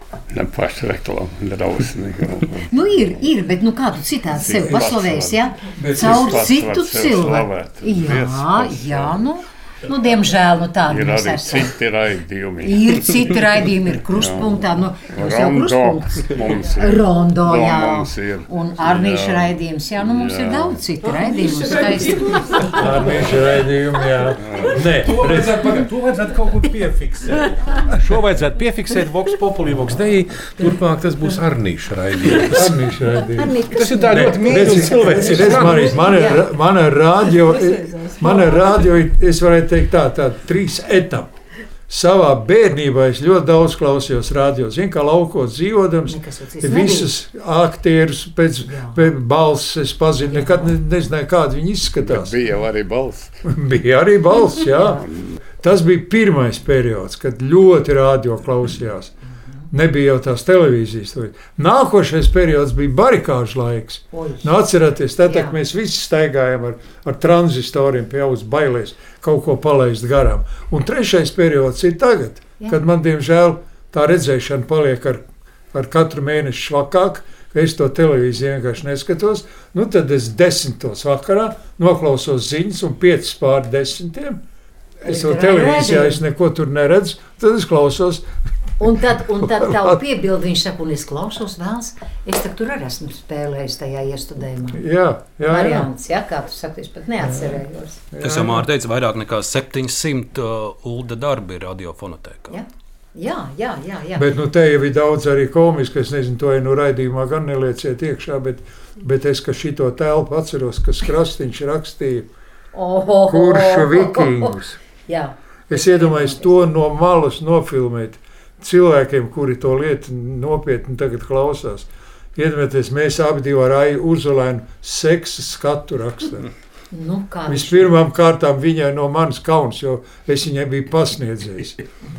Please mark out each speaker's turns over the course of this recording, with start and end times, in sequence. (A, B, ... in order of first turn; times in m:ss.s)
0:00.3-0:02.7 A
0:02.7-0:11.7 B
0:04.3-0:09.2 A
0:05.8-0:06.6 C
0:10.9-0:13.1 A
0:12.6-0:22.8 B
0:14.2-0:14.5 A
0:15.1-0:20.8 A
0:22.6-0:25.9 C
0:24.4-0:24.8 A
0:24.8-0:32.8 D
0:32.5-0:33.5 C
0:33.3-0:36.5 B
0:33.7-0:36.0 D
0:34.1-0:41.3 C
0:41.9-0:52.4 C
0:46.1-0:47.1 B
0:48.6-0:49.1 B
0:50.3-0:50.7 B
0:52.0-0:53.4 A
0:53.4-0:55.0 C
0:55.0-0:55.3 A
0:55.6-0:59.1 C
0:59.7-1:24.4 C
1:04.1-1:04.5 B
1:05.2-1:05.6 B
1:25.0-1:28.2 C
1:25.0-1:26.2 B
1:28.8-1:34.8 B
1:29.5-1:30.0 C
1:34.8-1:35.9 C
1:35.4-1:38.0 B
1:37.2-1:37.6 C
1:38.1-1:38.6 C
1:38.2-1:42.6 E
1:42.5-1:44.3 B
1:44.2-1:52.3 C
1:52.7-1:56.5 B
1:53.3-1:54.8 C
1:55.7-2:06.5 C
2:06.9-2:07.9 B
2:07.5-2:11.8 C